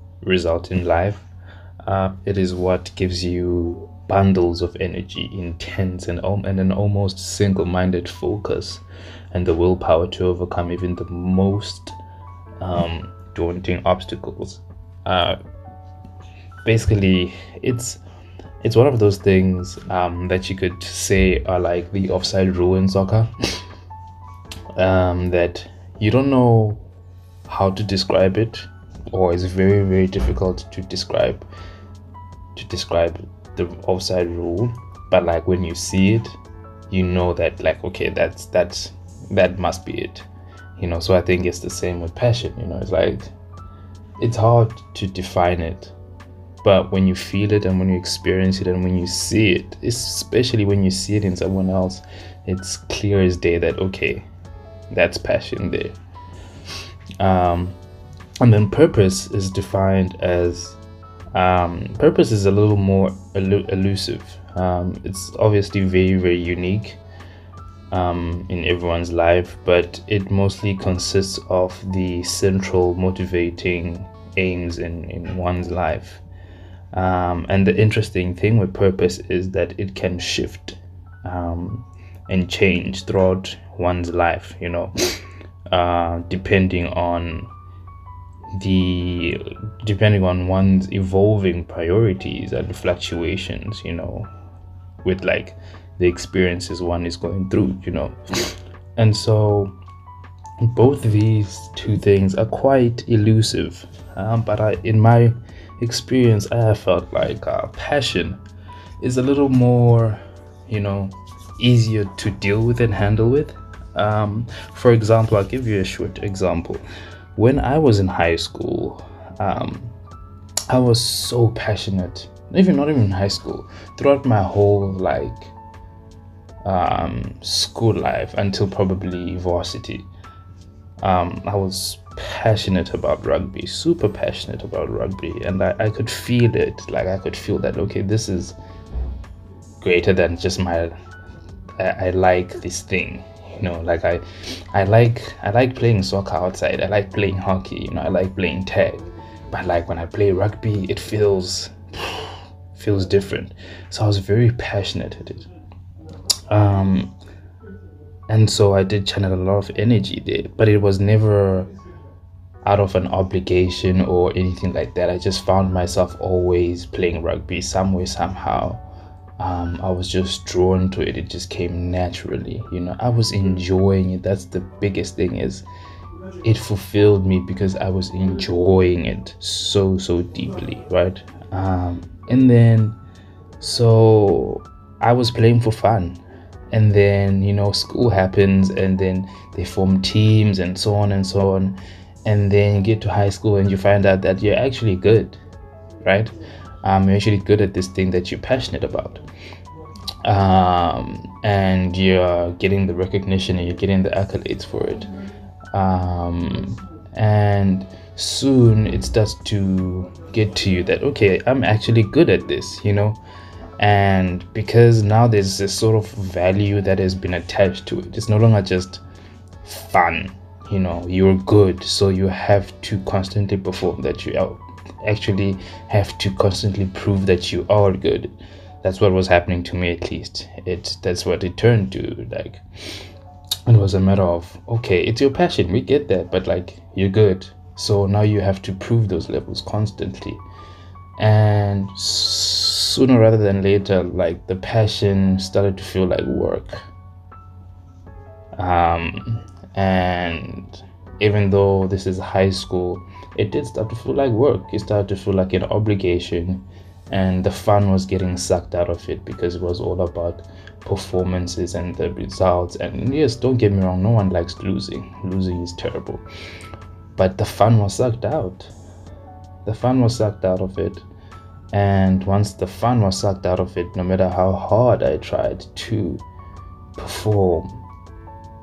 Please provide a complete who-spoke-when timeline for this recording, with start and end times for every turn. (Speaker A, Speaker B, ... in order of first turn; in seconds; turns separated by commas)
Speaker A: 0.2-1.3, Speaker A: 1.8-11.9, Speaker A: 12.6-15.4, Speaker A: 16.6-18.0, Speaker A: 18.6-23.6, Speaker A: 24.8-26.8, Speaker A: 27.5-31.4, Speaker A: 32.5-36.4, Speaker A: 36.9-40.3, Speaker A: 40.8-43.3, Speaker A: 44.2-45.9, Speaker A: 46.6-54.3, Speaker A: 54.9-56.0, Speaker A: 57.2-57.8, Speaker A: 58.4-60.8, Speaker A: 61.3-67.0, Speaker A: 67.9-76.2, Speaker A: 76.9-87.5, Speaker A: 88.5-94.3, Speaker A: 95.0-99.7, Speaker A: 100.6-108.4, Speaker A: 109.0-116.8, Speaker A: 117.4-119.9, Speaker A: 120.7-125.5, Speaker A: 126.6-130.1, Speaker A: 131.0-138.6, Speaker A: 139.8-140.9, Speaker A: 141.8-155.5, Speaker A: 156.5-157.1, Speaker A: 158.3-161.7, Speaker A: 162.6-168.8, Speaker A: 169.4-175.7, Speaker A: 176.4-183.0, Speaker A: 183.6-195.4, Speaker A: 196.0-199.2, Speaker A: 200.2-205.1, Speaker A: 205.7-213.2, Speaker A: 213.8-219.0, Speaker A: 219.6-232.6, Speaker A: 233.7-240.4, Speaker A: 241.2-246.8, Speaker A: 248.6-266.2, Speaker A: 267.2-268.7, Speaker A: 269.6-271.0, Speaker A: 271.7-276.2, Speaker A: 277.0-277.8